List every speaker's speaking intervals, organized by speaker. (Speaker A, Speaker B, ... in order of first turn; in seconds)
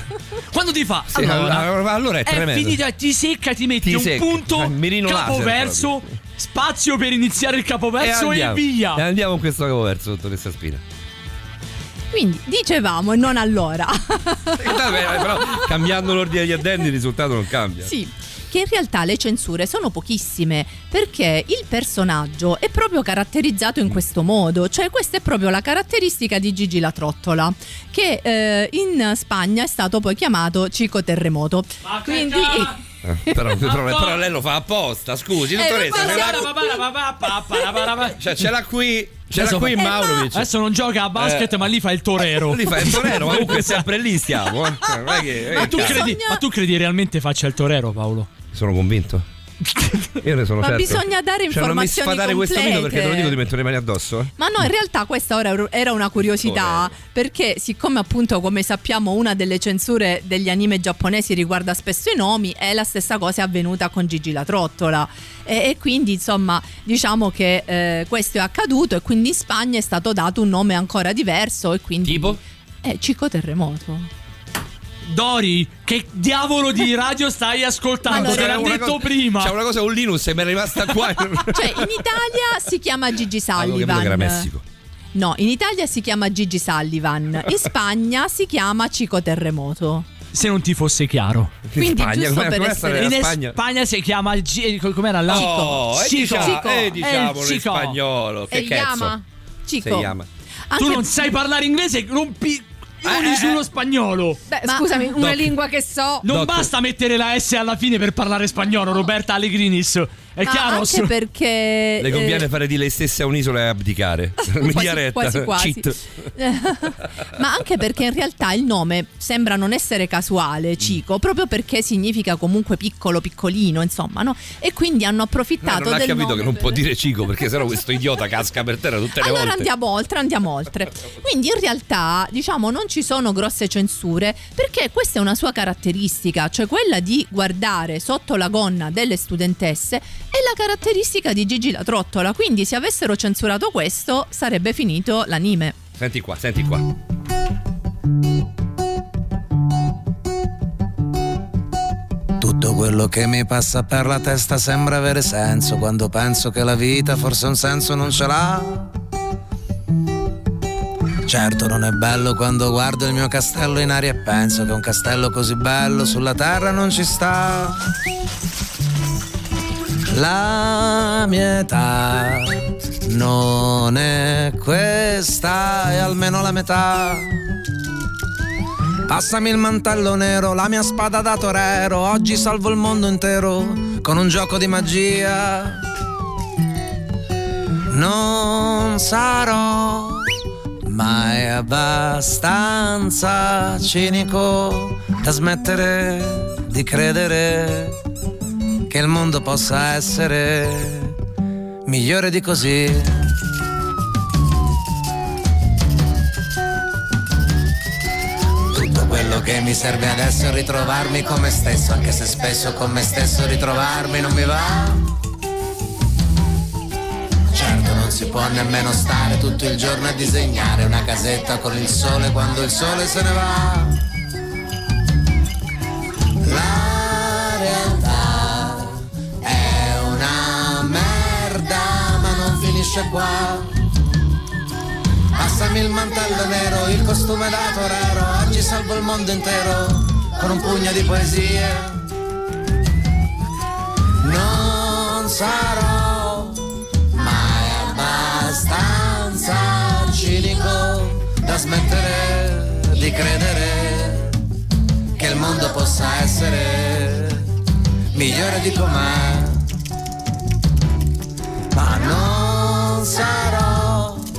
Speaker A: 0.5-1.7, 2.2-9.0, 31.8-32.8, 33.6-34.2, 35.7-38.3, 39.3-43.8, 45.5-48.3, 49.8-50.1, 75.0-79.5, 90.3-91.5, 92.8-98.0, 100.8-104.4, 106.2-111.1
Speaker B: 1.1-2.8, 3.8-6.0, 8.0-10.8, 14.5-17.9, 33.0-36.5, 38.2-40.5, 41.1-41.6, 42.2-46.1, 48.5-49.2, 50.2-54.3, 56.2-56.9, 72.0-72.4, 78.1-81.9, 83.5-84.6, 91.7-93.6, 95.3-99.1, 99.8-100.3, 103.0-103.6, 105.2-105.5, 106.3-106.7, 112.0-116.0, 125.6-129.7, 146.0-146.8
Speaker C: 12.1-15.6, 17.8-32.8, 35.5-37.9, 45.5-46.4, 50.6-53.4, 54.4-74.1, 78.1-78.8, 81.5-84.5, 85.1-90.1, 91.8-92.9, 95.3-95.8, 96.3-96.5, 99.7-100.1, 100.7-101.2, 104.7-105.1, 110.4-112.5, 114.4-126.8, 129.2-145.8
Speaker D: 98.5-99.2, 104.5-106.3
Speaker E: 152.4-158.8, 161.3-167.8, 170.1-172.4, 173.1-177.3, 179.1-185.7, 187.9-190.1, 190.9-197.9, 198.9-201.1, 201.9-203.0, 208.7-214.9, 217.5-223.9, 226.5-228.8, 229.5-233.7, 235.4-241.9, 244.2-246.5, 247.2-254.2, 255.2-257.2, 258.1-259.5, 261.8-264.1